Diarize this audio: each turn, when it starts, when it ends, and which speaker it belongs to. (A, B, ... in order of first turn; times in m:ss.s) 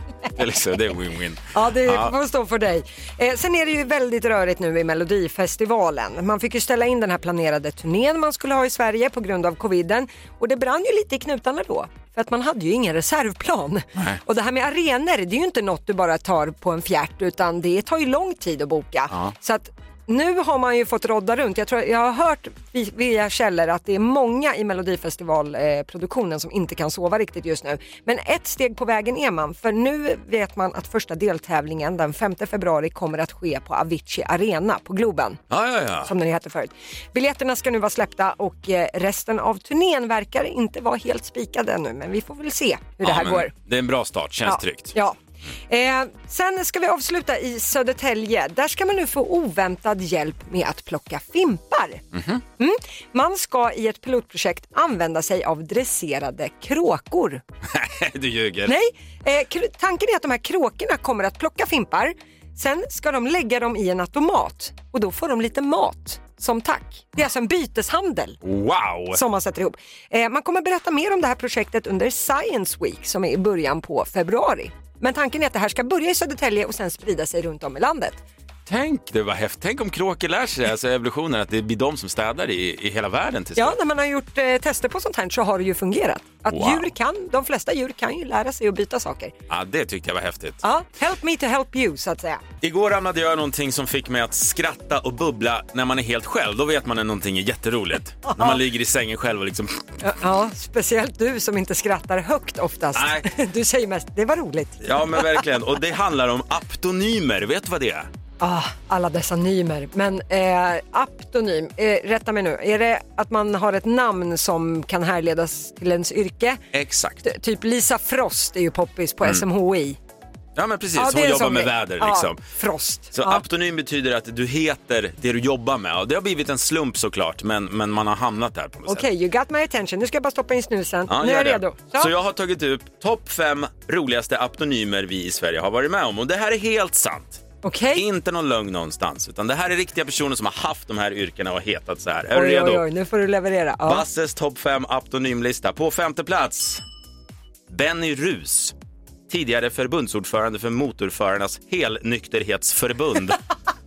0:00.3-0:02.1 A
0:01.5-0:35.4 B
0:35.5-0:36.1 A
0:36.0-0:43.5 B
0:43.0-0:44.9 A
0:44.5-0:45.2 B
0:45.7-0:52.0 B
0:52.1-0:52.4 A
0:52.6-0:57.4 B
0:57.7-0:58.7 A
0:58.7-1:08.4 B
1:08.4-1:09.2 A
1:09.1-1:18.2 B
1:18.7-1:23.8 A
1:23.6-1:29.3 B
1:26.5-1:26.9 A
1:29.5-1:30.6 A
1:30.6-1:32.4 B
1:32.6-1:39.8 A
1:38.3-1:38.6 B
1:40.0-1:45.4 B
1:43.0-1:43.3 A
1:44.8-1:48.1 A
1:48.4-1:56.6 B
1:56.7-1:57.3 A
1:57.2-2:00.0 B
2:00.6-2:02.4 A
2:01.0-2:03.4 B
2:03.1-2:09.1 A
2:08.9-2:12.1 B
2:11.1-2:17.4 A
2:17.6-2:18.0 B
2:18.0-2:22.8 A
2:22.3-2:24.0 B
2:23.9-2:26.8 A
2:27.7-2:28.7 A
2:29.3-2:33.4 A